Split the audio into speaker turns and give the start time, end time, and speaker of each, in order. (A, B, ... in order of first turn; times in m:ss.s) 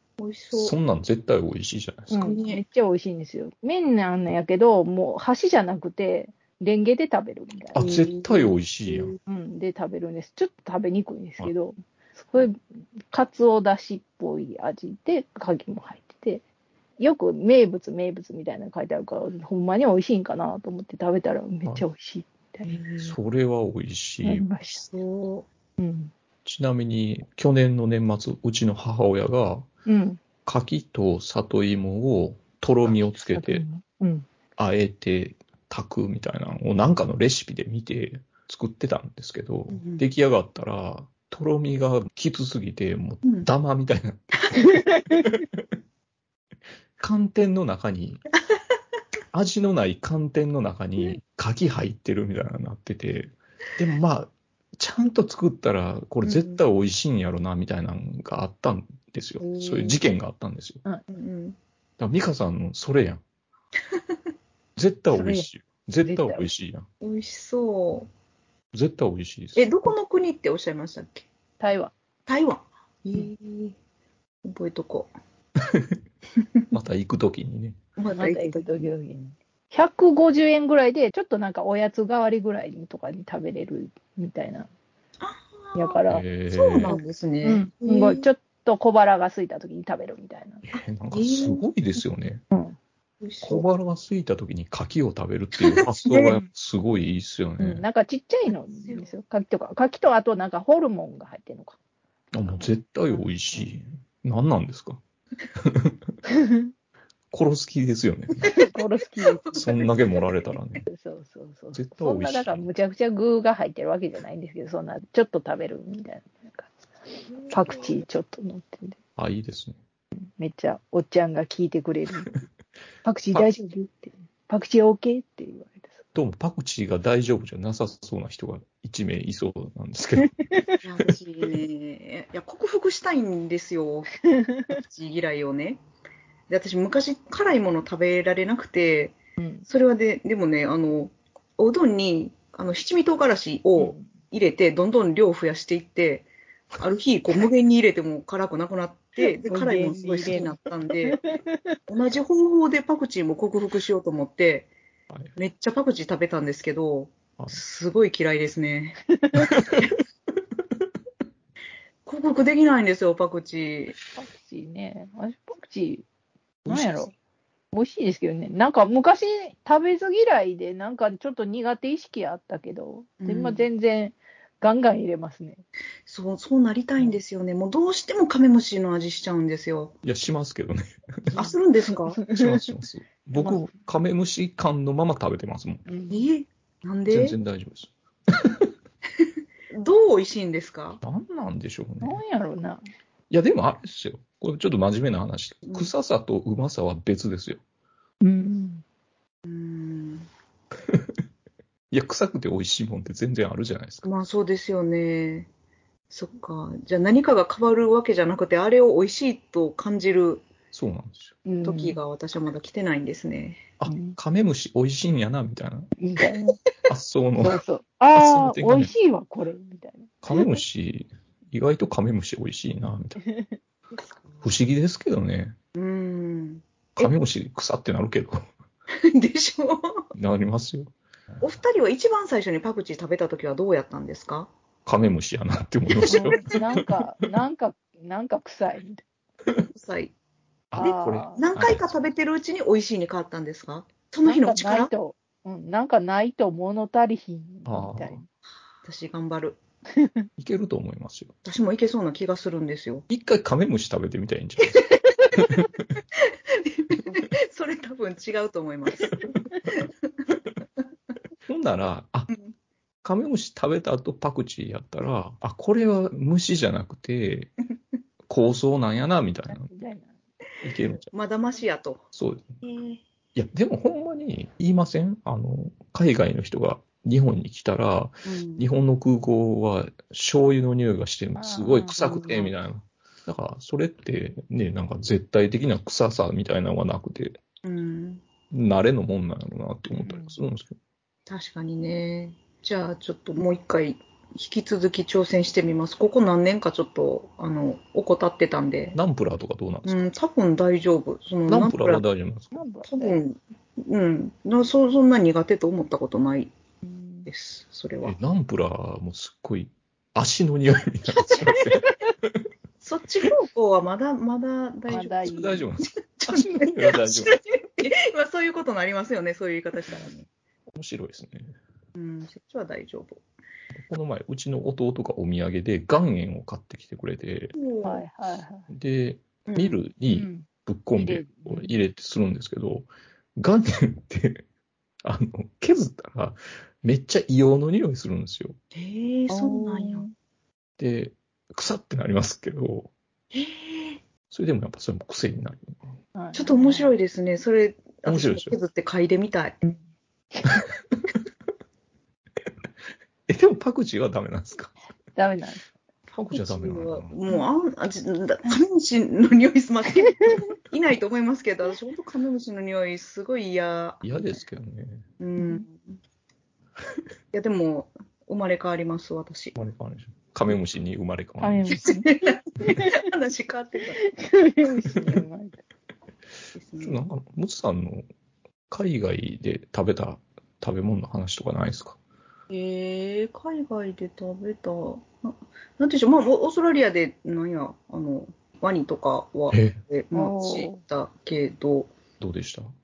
0:00.2-0:00.8 A
0:00.5-0:02.4 B
0:02.1-0:07.9 C
0:02.2-0:02.6 A
0:07.7-0:09.2 B
0:07.8-0:09.2 A
0:09.3-0:16.4 C
0:17.0-0:22.7 C
0:22.6-0:23.2 A
0:23.0-0:24.5 B
0:24.2-0:24.9 C
0:24.9-0:25.5 A
0:25.8-0:26.1 C
0:26.4-0:29.7 B
0:29.9-0:30.2 C
0:30.4-0:33.6 B
0:32.9-0:34.3 C
0:34.6-0:45.6 B
0:39.7-0:40.0 A
0:44.7-0:45.2 C
0:47.0-0:48.2 B
0:49.3-1:00.8 B
0:56.2-0:56.6 A
0:59.4-1:00.0 A
1:01.1-1:01.6 A
1:02.0-1:03.2 B
1:04.8-1:06.9 B
1:05.1-1:05.5 C
1:06.0-1:06.5 C
1:07.0-1:08.1 A
1:08.7-1:09.7 B
1:09.6-1:11.3 A
1:11.6-1:11.9 C
1:12.3-1:13.8 A
1:14.4-1:15.1 A
1:16.7-1:17.8 B
1:18.0-1:18.7 A
1:18.2-1:24.7 C
1:25.2-1:26.0 A
1:25.8-1:26.3 C
1:26.1-1:27.0 B
1:26.5-1:28.3 A
1:26.9-1:30.6 C
1:30.7-1:32.4 B
1:31.1-1:31.7 A
1:33.2-1:33.7 A
1:33.4-1:37.8 B
1:35.6-1:36.4 A
1:37.6-1:41.8 C
1:38.5-1:39.1 A
1:42.3-1:45.0 B
1:42.6-1:43.6 C
1:45.6-1:46.0 B
1:46.3-1:46.7 C
1:47.3-1:48.5 B
1:48.5-1:49.9 A
1:48.6-1:49.8 C
1:49.5-1:50.9 B
1:50.9-1:59.0 C
1:51.7-1:52.7 B
1:57.3-1:58.0 A
1:59.2-1:59.8 B
2:00.2-2:02.3 C
2:03.0-2:06.0 C
2:06.1-2:10.4 B
2:10.2-2:10.8 C
2:10.8-2:14.1 A
2:14.2-2:14.8 C
2:14.7-2:15.8 A
2:16.5-2:19.2 A
2:19.4-2:19.7 C
2:19.7-2:31.2 A
2:23.8-2:24.1 C
2:29.4-2:31.8 C
2:31.9-2:34.7 A
2:35.4-2:39.0 A
2:39.2-2:39.5 C
2:39.4-2:39.9 B
2:42.1-2:44.0 A
2:44.2-2:46.0 C
2:46.7-2:47.1 C
2:46.7-2:47.0 B
2:47.7-2:55.6 C
2:53.2-2:53.7 A
2:56.1-2:59.9 A
3:00.0-3:01.4 B
3:01.4-3:02.2 A
3:02.2-3:02.7 C
3:02.3-3:05.8 B
3:03.4-3:03.7 C
3:05.9-3:06.2 C
3:06.1-3:07.4 A
3:07.1-3:08.6 B
3:09.2-3:11.0 A
3:11.0-3:12.2 B
3:12.0-3:12.8 C
3:13.3-3:17.6 B
3:15.7-3:15.9 A
3:18.2-3:18.8 C
3:19.4-3:20.3 A
3:21.9-3:24.1 B
3:24.0-3:25.5 A
3:26.1-3:30.5 A
3:30.7-3:31.4 B
3:31.5-3:32.0 C
3:31.6-3:33.7 A
3:33.8-3:35.9 B
3:33.9-3:34.2 C
3:36.0-3:36.6 C
3:36.2-3:36.5 A
3:36.9-3:37.6 B
3:37.4-3:40.4 C
3:38.2-3:38.9 B
3:40.2-3:43.2 B
3:43.2-3:43.6 C
3:44.4-3:45.6 B
3:45.7-3:47.1 A
3:47.0-3:48.4 B
3:48.9-3:50.1 A
3:50.1-3:50.9 B
3:51.4-3:54.5 A
3:54.9-3:57.3 B
3:56.1-3:56.5 A
3:56.1-3:59.0 C
3:59.7-4:00.1 A
4:00.7-4:01.9 B
4:00.8-4:01.4 C
4:00.8-4:04.9 A
4:04.2-4:08.2 C
4:07.7-4:08.2 B
4:08.8-4:09.6 A
4:10.0-4:10.3 C
4:10.4-4:11.3 B
4:11.4-4:13.0 A
4:13.1-4:15.8 B
4:16.2-4:19.2 A
4:21.5-4:22.3 B
4:23.0-4:27.5 B
4:28.3-4:29.7 B
4:29.5-4:30.1 C
4:30.6-4:31.1 B
4:31.0-4:32.0 A
4:32.1-4:32.6 B
4:32.6-4:33.0 A
4:33.4-4:47.4 B
4:38.2-4:38.6 A
4:41.4-4:42.5 C
4:47.6-4:48.2 A
4:48.5-4:50.8 B
4:49.9-4:50.4 C
4:51.3-4:59.0 A
4:59.0-5:00.1 B
4:59.8-5:02.0 A
5:01.5-5:02.6 B
5:02.5-5:03.2 C
5:02.9-5:06.5 A
5:06.8-5:07.3 C
5:07.3-5:08.2 A
5:08.0-5:12.4 B
5:11.1-5:11.7 A
5:12.8-5:20.3 A
5:14.9-5:15.6 C
5:14.9-5:17.4 B
5:20.7-5:21.6 B
5:22.0-5:23.2 A
5:23.7-5:27.6 B
5:27.6-5:28.0 A
5:27.8-5:28.7 C
5:28.7-5:34.4 B
5:29.5-5:29.8 A
5:30.1-5:31.7 C
5:35.0-5:38.6 B
5:38.7-5:40.1 A
5:39.3-5:40.1 C
5:40.8-5:42.9 B
5:43.3-5:44.0 A
5:44.3-5:45.9 B
5:46.2-5:47.0 C
5:46.3-5:49.6 A
5:48.1-5:48.6 B
5:50.4-5:50.6 C
5:53.3-5:54.7 B
5:55.2-5:55.6 C
5:56.1-5:57.2 B
5:56.3-6:04.0 A
6:00.1-6:00.4 C
6:04.0-6:05.1 B
6:05.2-6:06.0 A
6:05.4-6:05.6 C
6:07.3-6:09.6 A
6:09.6-6:11.8 B
6:11.4-6:13.0 C
6:11.8-6:14.0 A
6:14.0-6:15.6 C
6:16.6-6:17.1 A
6:16.8-6:18.0 B
6:18.7-6:22.0 B
6:22.5-6:31.9 A
6:29.5-6:29.8 B
6:30.1-6:30.8 C
6:32.2-6:32.7 B